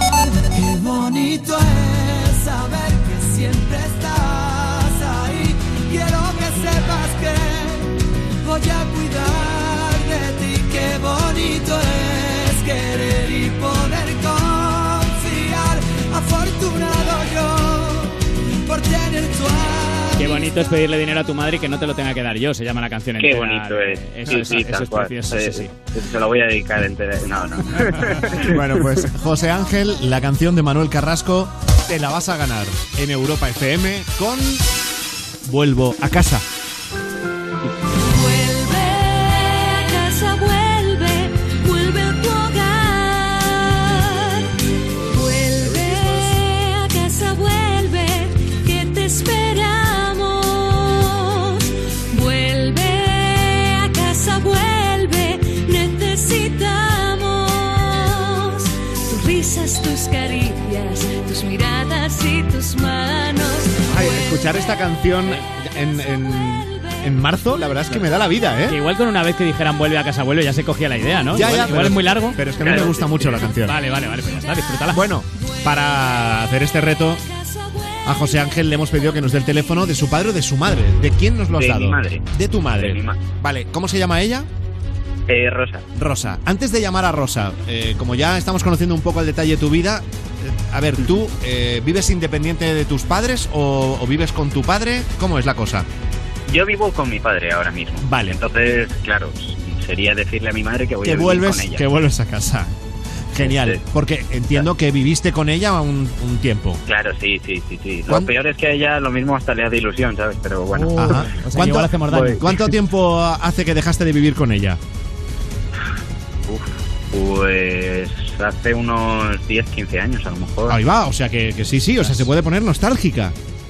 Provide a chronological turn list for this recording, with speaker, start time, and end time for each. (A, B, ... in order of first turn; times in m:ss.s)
0:00.2-0:20.4 A
0:20.2-0:25.7 B
0:23.2-0:28.8 C
0:28.3-0:34.7 D
0:35.4-0:36.5 D
0:38.0-1:04.6 E
1:03.8-1:08.8 D
1:08.6-1:13.0 B
1:11.3-1:13.8 D
1:12.6-1:13.4 C
1:13.6-1:15.2 B
1:14.9-1:17.2 D
1:17.5-1:17.9 E
1:18.0-1:24.5 D
1:21.5-1:23.2 C
1:25.3-1:25.8 C
1:25.9-1:35.9 D
1:36.5-1:41.9 C
1:38.0-1:38.4 D
1:41.0-1:42.7 D
1:43.3-1:46.8 D
1:43.4-1:43.8 C
1:46.9-1:51.2 C
1:50.7-1:52.7 B
1:50.9-1:54.8 D
1:56.5-2:00.8 C
2:00.7-2:03.4 D
2:02.0-2:02.3 B